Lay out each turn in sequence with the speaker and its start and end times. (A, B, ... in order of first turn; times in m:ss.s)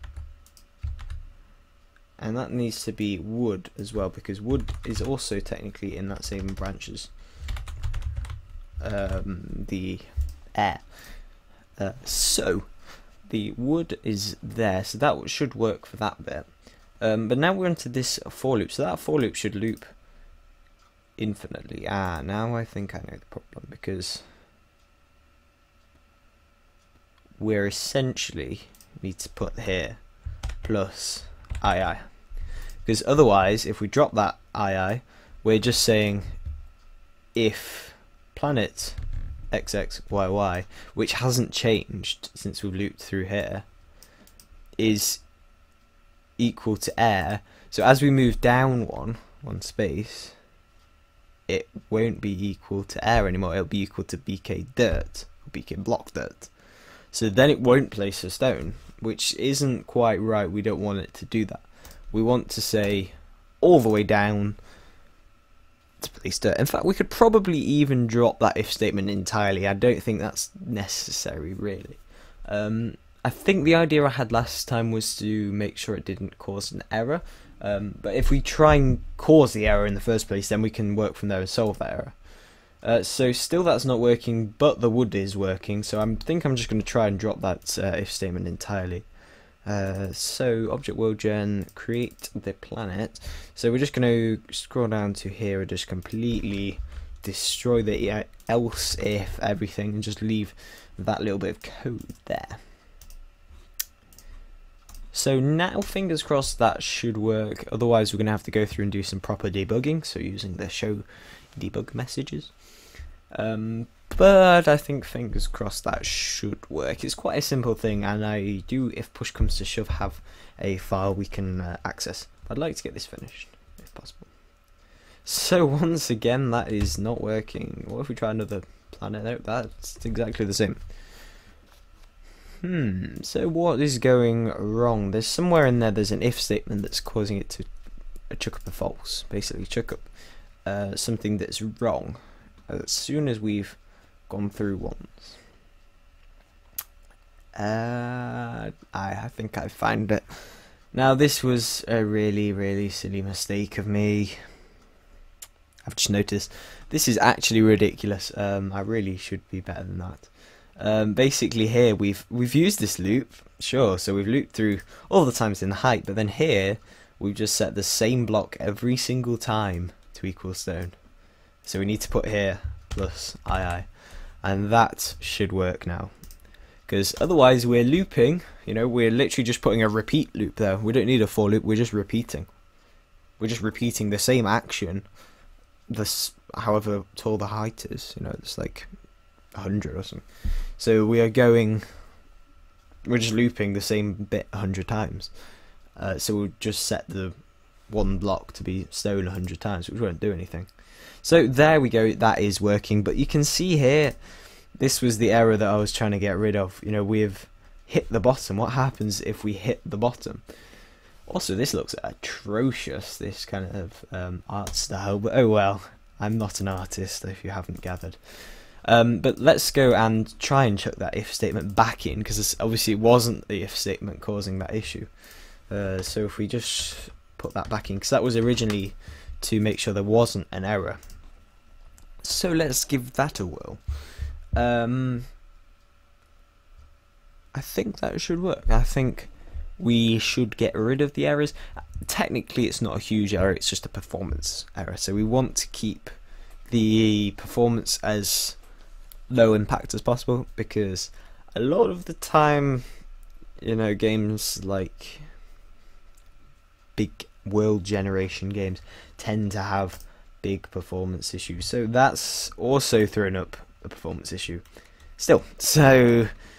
0:02.2-0:07.1 A
0:08.8-0:10.8 A
0:11.8-0:12.7 A
0:13.3-0:16.5 A
0:17.0-0:19.9 A
0:21.2-0:24.2 A
0:27.4-0:30.0 A
0:30.6-0:32.0 A
0:32.8-0:36.3 A
0:37.3-0:39.0 A
0:39.5-0:43.6 A
0:44.8-0:45.2 A
0:46.4-0:50.4 A
0:51.5-0:56.5 A
0:57.1-1:04.6 A
1:06.0-1:22.1 A
1:22.8-1:29.1 A
1:29.6-1:42.6 A
1:45.1-1:52.5 A
1:53.3-2:04.3 A
2:05.2-2:10.8 A
2:12.6-2:17.7 A
2:18.3-2:20.1 A
2:20.6-2:23.8 A
2:24.3-2:25.4 A
2:27.6-2:34.4 A
2:35.8-2:50.9 A
2:51.6-2:53.9 A
2:54.4-2:56.1 A
2:56.9-3:02.5 A
3:03.4-3:05.0 A
3:05.9-3:08.9 A
3:09.5-3:11.8 A
3:13.0-3:15.3 A
3:16.0-3:17.4 A
3:17.9-3:20.7 A
3:21.2-3:24.2 A
3:24.8-3:30.4 A
3:31.3-3:45.1 A
3:45.7-3:51.0 A
3:52.2-3:53.8 A
3:54.5-3:55.3 A
3:57.5-4:06.1 A
4:06.7-4:08.6 A
4:09.3-4:12.8 A
4:13.6-4:15.2 A
4:17.0-4:24.6 A
4:25.2-4:26.3 A